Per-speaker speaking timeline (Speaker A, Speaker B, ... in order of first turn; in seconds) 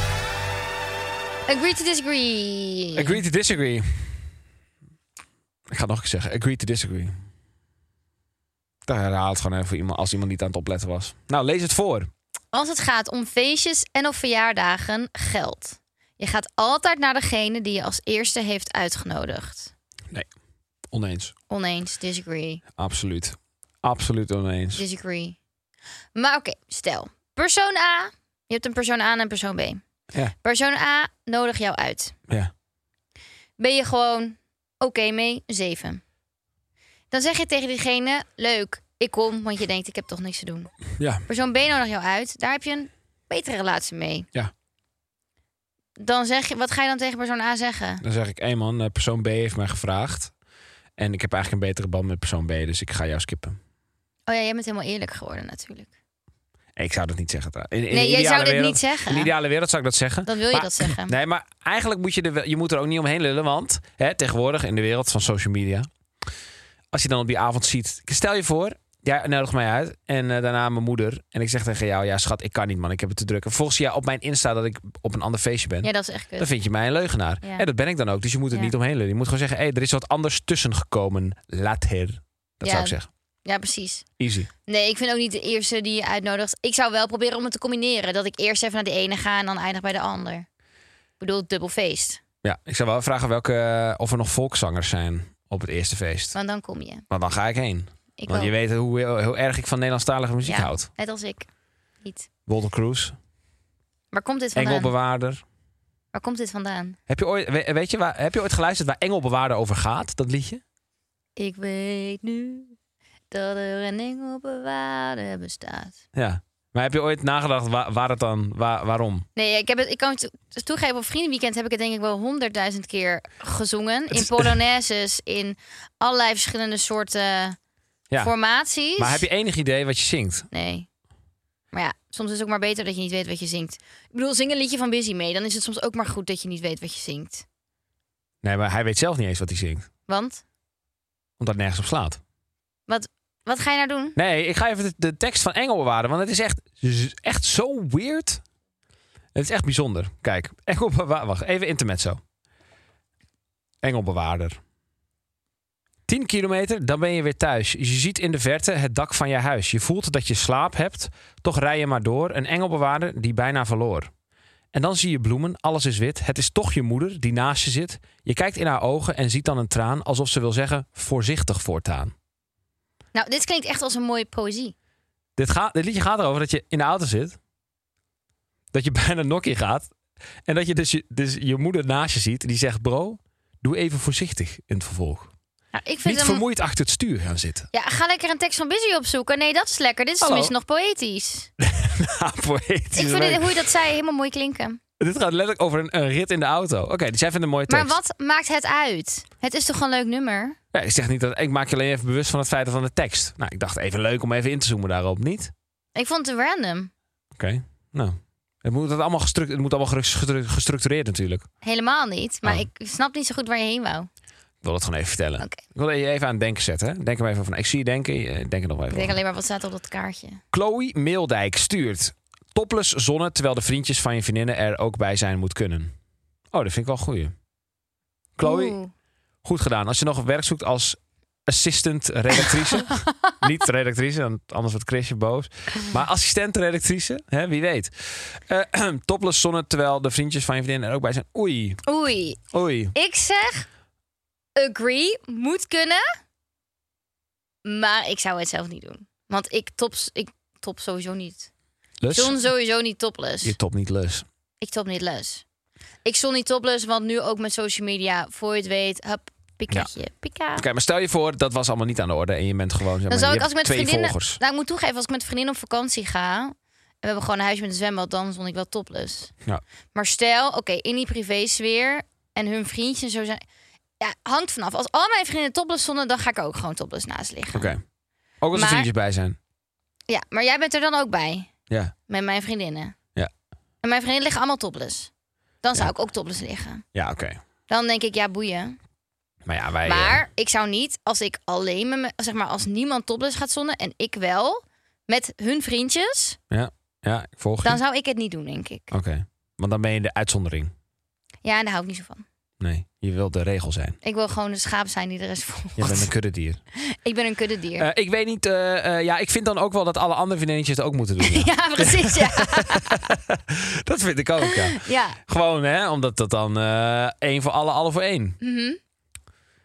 Speaker A: 1.5-3.2, 12.5-19.7, 21.5-22.6, 24.8-25.4, 26.1-29.8, 30.4-32.1, 33.6-36.0, 37.1-40.7, 41.3-44.3, 46.0-48.0, 54.3-55.9, 57.9-59.3, 60.3-61.1, 75.8-76.5, 82.6-84.0, 84.7-90.5, 91.2-92.2, 96.3-97.0, 98.2-98.5, 100.4-101.5, 102.0-102.3, 104.1-104.9, 106.1-107.0, 111.4-112.8, 113.3-116.0, 119.4-127.6, 128.2-129.2, 130.5-130.9, 131.7-137.4, 140.1-140.4, 142.9-144.2, 173.1-174.8, 185.7-186.4, 187.7-191.5, 192.9-194.8, 197.7-200.6, 205.9-206.9, 211.6-214.1, 218.9-220.4, 228.4-228.9, 232.9-233.3, 241.8-242.4, 242.9-243.7, 244.6-246.0, 247.7-251.5, 252.1-253.6, 254.6-255.4, 256.0-260.6, 263.1-269.3, 269.9-273.4, 274.0-277.8, 278.5-278.9, 280.1-281.5, 282.1-282.9, 283.8-285.1, 285.6-286.9, 287.7-288.8, 289.9-296.4, 297.6-298.9, 301.4-302.2, 304.0-306.1, 306.8-307.9, 311.2-313.1, 314.5-315.2, 318.4-318.8
Speaker B: 3.0-4.2, 5.7-7.1, 8.9-12.1, 20.9-21.3, 22.8-24.8, 41.0-41.2, 48.0-50.3, 51.0-53.6, 56.8-65.9, 66.9-83.1, 84.2-84.5, 92.4-96.3, 97.1-100.9, 102.5-103.2, 104.6-105.4, 107.1-110.6, 116.2-119.3, 124.1-124.5, 129.0-130.5, 138.4-139.9, 141.4-142.2, 144.2-148.4, 149.3-152.2, 153.8-154.6, 156.1-164.1, 164.7-172.1, 175.4-177.4, 178.7-179.9, 180.5-185.3, 186.1-187.7, 190.2-190.5, 191.6-193.6, 195.0-197.9, 200.7-205.5, 207.4-211.5, 214.6-219.2, 220.5-225.9, 226.5-227.3, 228.4-228.8, 229.4-241.8, 242.5-242.9, 252.0-252.4, 253.4-254.3, 260.6-264.4, 277.5-277.8, 278.4-279.4, 286.9-287.4, 289.4-290.2, 296.5-297.8, 298.9-300.7, 302.6-304.0, 305.8-306.6, 307.8-318.4